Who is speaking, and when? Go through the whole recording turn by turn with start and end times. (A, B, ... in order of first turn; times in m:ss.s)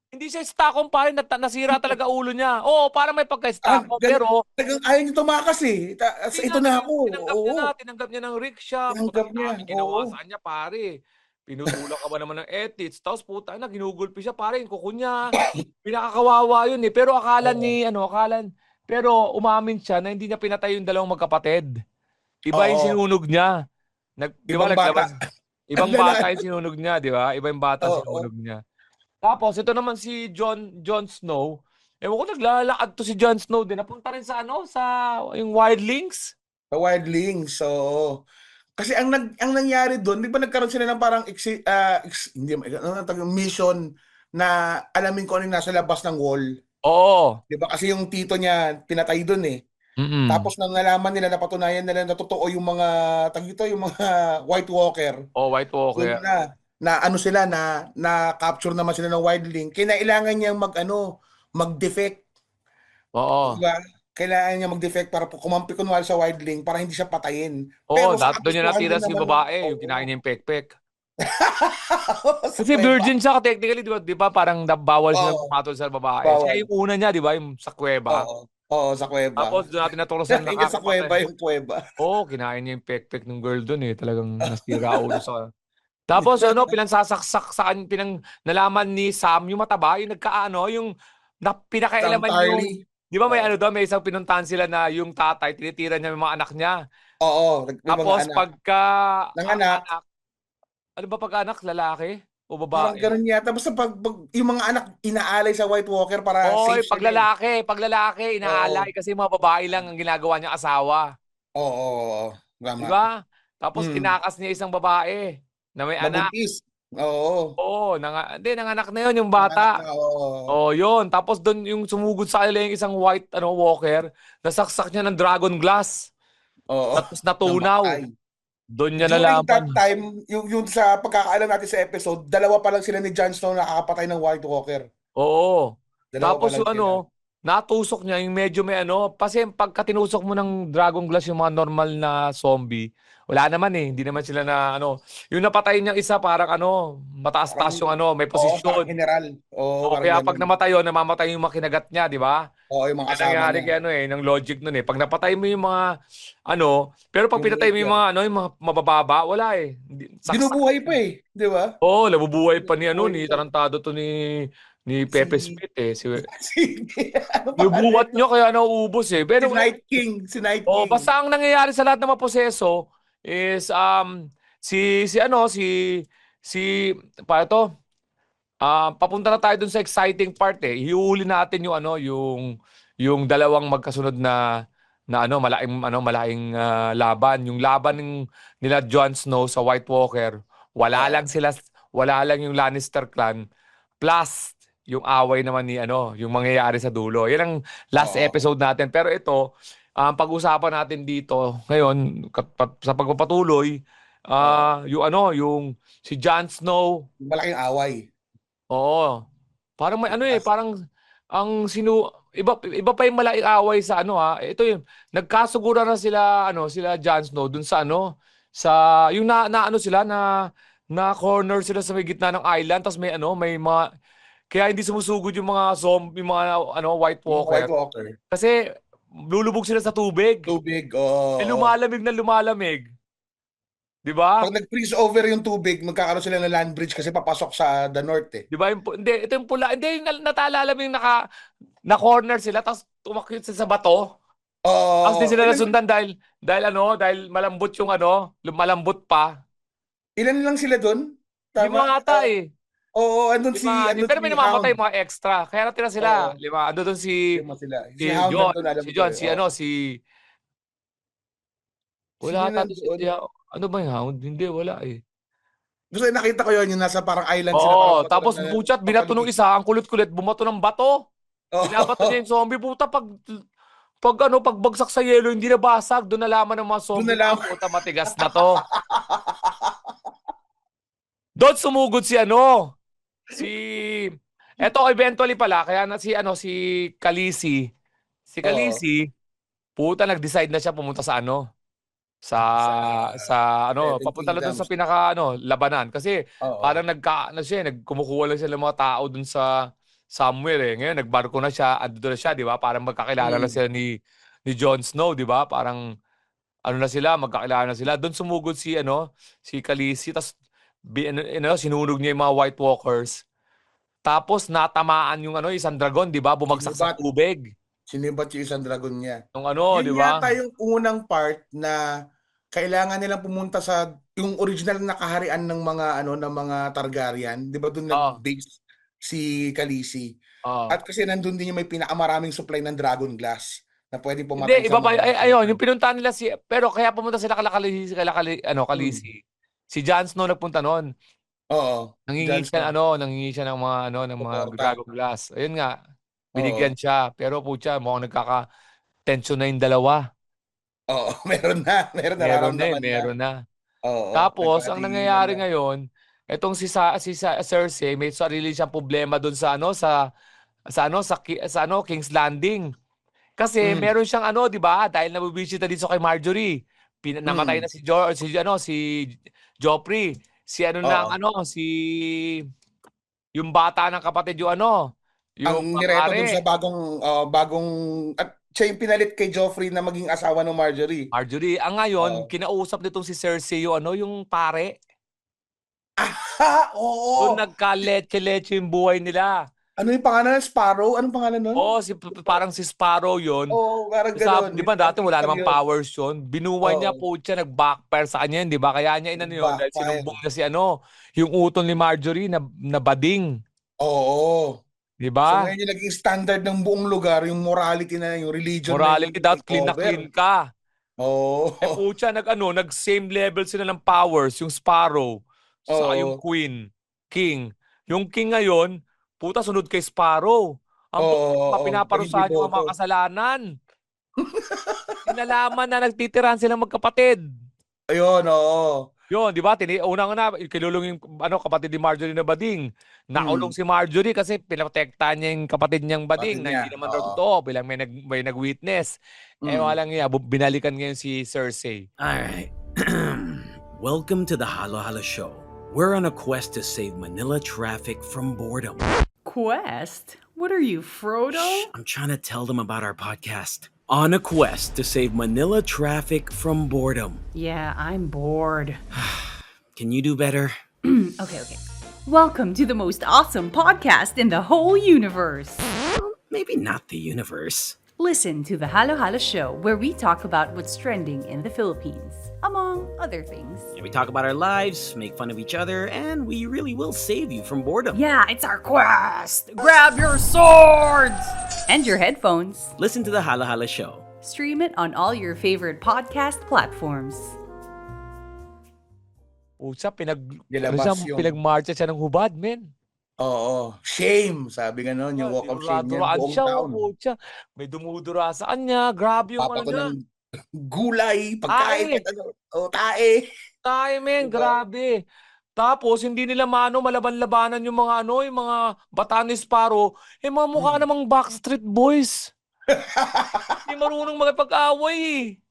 0:00.1-0:04.4 A
0:03.6-0:07.7 B
0:06.3-0:10.9 A
0:08.9-0:10.1 B
0:11.5-0:15.3 A
0:15.8-0:21.7 A
0:17.4-0:17.8 B
0:22.5-0:23.5 A
0:22.5-0:23.0 B
0:24.2-0:25.1 A
0:24.5-0:25.1 B
0:25.7-0:28.6 A
0:25.8-0:26.4 B
0:27.8-0:28.3 B
0:29.2-0:36.3 A
0:36.7-0:38.2 B
0:38.8-0:43.8 B
0:44.4-0:46.5 B
0:46.8-0:47.4 A
0:47.5-0:49.6 B
0:50.0-0:50.5 A
0:50.3-0:55.2 B
0:55.4-0:56.2 A
0:56.0-1:01.0 B
1:01.6-1:02.2 B
1:03.2-1:03.6 A
1:03.4-1:10.0 B
1:07.9-1:10.8 A
1:11.2-1:13.1 B
1:12.6-1:18.3 A
1:15.1-1:15.5 B
1:16.2-1:16.7 B
1:18.1-1:19.6 B
1:19.4-1:21.2 A
1:20.3-1:21.8 B
1:22.0-1:25.5 A
1:24.5-1:25.2 B
1:26.1-1:30.9 A
1:26.2-1:26.7 B
1:31.4-1:36.8 A
1:32.0-1:33.5 B
1:37.2-1:38.4 B
1:37.9-1:38.9 A
1:39.4-1:39.8 B
1:39.4-1:40.0 A
1:41.0-1:43.1 A
1:42.7-1:47.2 B
1:46.4-1:51.0 A
1:48.4-1:48.9 B
1:51.6-1:53.0 B
1:52.8-1:56.3 A
1:53.8-1:54.1 B
1:56.0-1:57.5 B
1:57.6-1:59.8 A
1:59.4-2:00.5 B
2:00.5-2:06.1 A
2:06.7-2:08.1 B
2:07.0-2:08.0 A
2:08.8-2:09.8 A
2:09.0-2:14.9 B
2:15.2-2:28.9 A
2:16.1-2:17.0 B
2:27.5-2:30.5 B
2:29.8-2:32.4 A
2:32.7-2:33.7 B
2:33.1-2:35.8 A
2:36.5-2:41.0 A
2:37.4-2:38.0 B
2:40.3-2:41.7 B
2:41.8-2:46.3 A
2:42.6-2:43.4 B
2:45.1-2:45.6 B
2:46.3-2:48.2 B
2:47.6-2:49.6 A
2:49.4-2:51.1 B
2:50.7-2:54.1 A
2:54.6-2:56.7 A
2:57.3-2:57.6 A
2:58.6-3:02.5 A
3:03.0-3:04.4 A
3:05.1-3:08.1 A
3:08.6-3:13.4 A
3:10.9-3:11.2 B
3:14.0-3:19.4 A
3:18.0-3:18.4 B
3:20.0-3:23.7 A
3:24.3-3:27.0 A
3:24.4-3:24.7 B
3:27.2-3:28.1 B
3:28.7-3:29.1 A
3:29.8-3:30.7 A
3:30.1-3:30.4 B
3:31.3-3:40.2 A
3:40.9-3:43.8 A
3:44.5-3:47.7 A
3:47.3-3:48.2 B
3:49.2-3:50.5 A
3:50.5-3:51.7 B
3:51.4-3:52.9 A
3:54.0-3:54.5 A
3:54.4-3:58.4 B
3:58.5-4:01.2 A
4:01.9-4:04.1 A
4:04.6-4:05.7 B
4:05.0-4:09.3 A
4:10.2-4:11.0 B
4:11.5-4:12.3 B
4:11.6-4:12.5 A
4:13.0-4:14.8 B
4:13.5-4:17.4 A
4:16.0-4:16.4 B
4:17.4-4:19.4 B
4:18.0-4:19.8 A
4:22.2-4:23.1 B
4:22.2-4:25.0 A
4:25.9-4:29.3 B
4:27.5-4:31.0 A
4:31.5-4:32.1 B
4:31.7-4:33.4 A
4:34.0-4:38.6 A
4:36.9-4:37.5 B
4:38.2-4:39.8 B
4:41.4-4:42.7 A
4:43.3-4:47.6 A
4:48.3-4:49.1 A
4:48.4-4:48.8 B
4:49.8-4:51.4 A
4:52.2-4:59.5 A
4:52.4-4:53.3 B
4:53.8-4:54.7 B
4:56.4-4:56.8 B
5:00.2-5:03.9 A
5:03.2-5:03.6 B
5:04.5-5:05.8 A
5:06.7-5:10.3 A
5:10.9-5:13.2 A
5:14.0-5:17.5 A
5:16.5-5:17.0 B
5:17.9-5:19.2 B
5:19.4-5:20.3 A
5:19.7-5:21.8 B
5:22.5-5:30.1 B
5:27.9-5:28.2 A
5:30.5-5:30.8 A
5:30.7-5:35.6 B
5:34.4-5:39.2 A
5:38.7-5:39.0 B
5:39.7-5:40.9 A
5:41.5-5:42.7 B
5:42.1-5:45.7 A
5:44.2-5:44.8 B
5:46.4-5:46.7 B
5:46.4-5:48.4 A
5:49.1-5:50.0 A
5:50.9-5:53.1 B
5:52.2-5:53.3 A
5:53.8-5:55.4 B
5:54.1-5:55.8 A
5:56.3-5:59.9 A
6:00.7-6:02.7 A
6:03.4-6:08.8 A
6:03.6-6:03.9 B
6:07.3-6:07.6 B
6:09.6-6:12.4 A
6:10.8-6:11.1 B
6:13.4-6:14.8 A
6:15.4-6:16.3 A
6:15.4-6:21.1 B
6:21.1-6:24.7 A
6:22.0-6:22.3 B
6:26.0-6:27.4 B
6:27.2-6:29.3 A
6:29.8-6:31.7 B
6:31.6-6:33.6 A
6:33.5-6:35.6 B
6:34.1-6:43.3 A
6:36.6-6:37.0 B
6:39.2-6:40.1 B
6:43.8-6:44.6 B
6:45.0-6:45.5 A
6:45.3-6:50.0 B
6:48.7-6:50.4 A
6:51.0-6:51.8 B
6:51.6-7:00.4 A
6:55.7-6:56.2 B
7:01.0-7:03.4 A
7:01.0-7:02.7 B
7:04.2-7:05.0 B
7:05.0-7:07.2 A
7:07.9-7:08.8 B
7:09.1-7:18.9 A
7:13.2-7:13.5 B
7:16.2-7:17.2 B
7:19.4-7:19.8 B
7:19.5-7:21.8 A
7:22.0-7:28.9 C
7:29.2-7:31.7 D
7:31.3-7:37.2 C
7:37.3-7:38.8 D
7:38.9-7:40.6 C
7:40.8-7:45.7 D
7:45.8-7:47.8 C
7:48.0-7:53.7 D
7:53.7-7:58.0 C
7:57.9-8:02.8 D
8:02.8-8:04.1 C
8:04.2-8:07.4 D
8:09.6-8:12.7 A
8:10.5-8:11.3 B
8:13.2-8:16.8 B
8:15.2-8:19.9 A
8:19.4-8:20.0 B
8:20.6-8:23.2 B
8:21.5-8:22.0 A
8:23.6-8:24.9 A
8:24.2-8:24.6 B
8:25.6-8:32.3 A
8:32.7-8:33.6 B
8:33.6-8:35.3 A